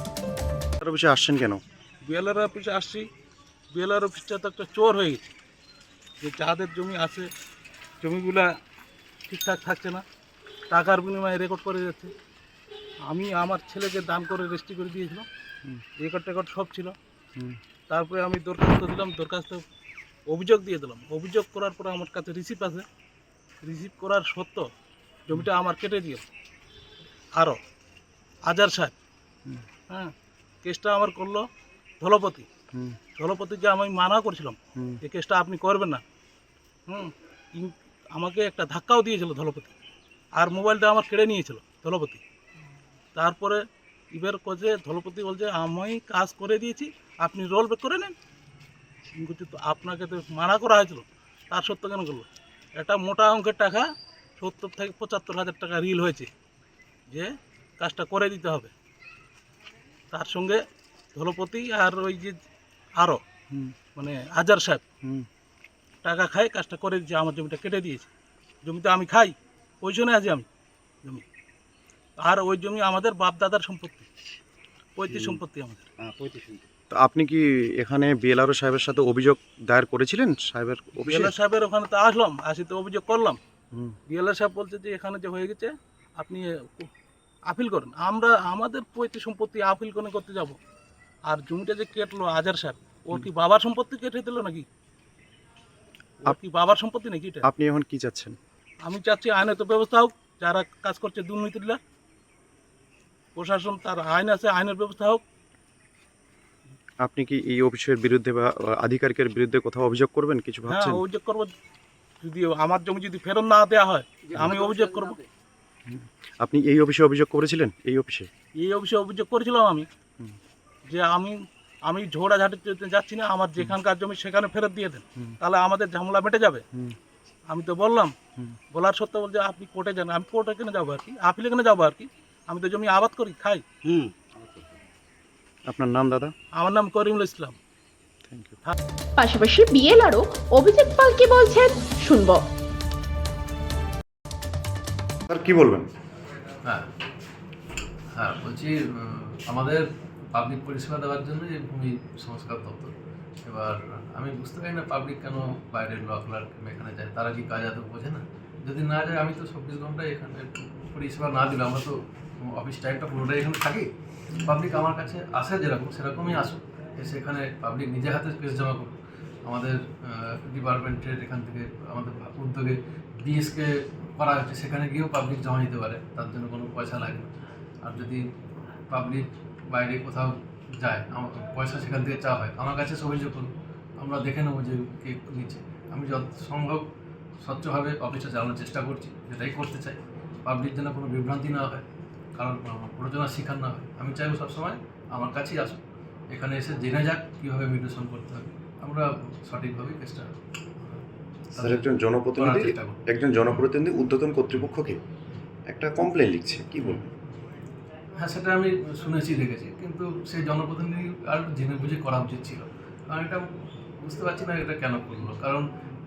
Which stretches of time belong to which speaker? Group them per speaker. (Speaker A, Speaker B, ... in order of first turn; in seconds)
Speaker A: 0.8-1.6, 76.9-81.3, 97.4-98.3, 107.0-111.0, 115.9-118.3, 135.7-136.3, 138.3-138.6, 145.3-145.9, 201.6-205.0, 205.7-207.0
Speaker B: 2.0-3.0, 3.7-5.3, 6.2-7.3, 8.0-8.5, 9.3-10.0, 10.7-12.1, 13.0-15.2, 16.0-16.9, 17.9-19.6, 20.3-22.8, 23.6-24.7, 25.3-26.2, 27.3-27.6, 28.4-28.9, 30.6-31.4, 32.0-32.5, 33.2-36.0, 36.9-39.7, 40.3-42.2, 43.1-48.1, 49.1-53.9, 54.4-56.3, 57.1-58.7, 60.1-60.6, 61.1-62.4, 63.0-63.2, 63.9-64.8, 66.0-68.1, 68.6-70.5, 72.2-74.0, 75.0-75.9, 81.0-83.4, 84.1-86.9, 87.5-90.5, 91.2-94.7, 96.2-97.4, 98.8-101.8, 103.3-105.2, 110.7-111.5, 112.2-115.2, 118.6-119.8, 120.9-126.6, 127.5-128.1, 128.7-133.7, 136.5-137.6
Speaker C: 139.2-142.4
Speaker D: 148.1-152.9, 153.4-163.9, 164.4-168.9, 169.4-177.3, 177.8-178.2, 178.9-186.8, 187.4-191.8, 192.4-200.3, 201.6-203.7, 208.2-213.4, 214.0-215.6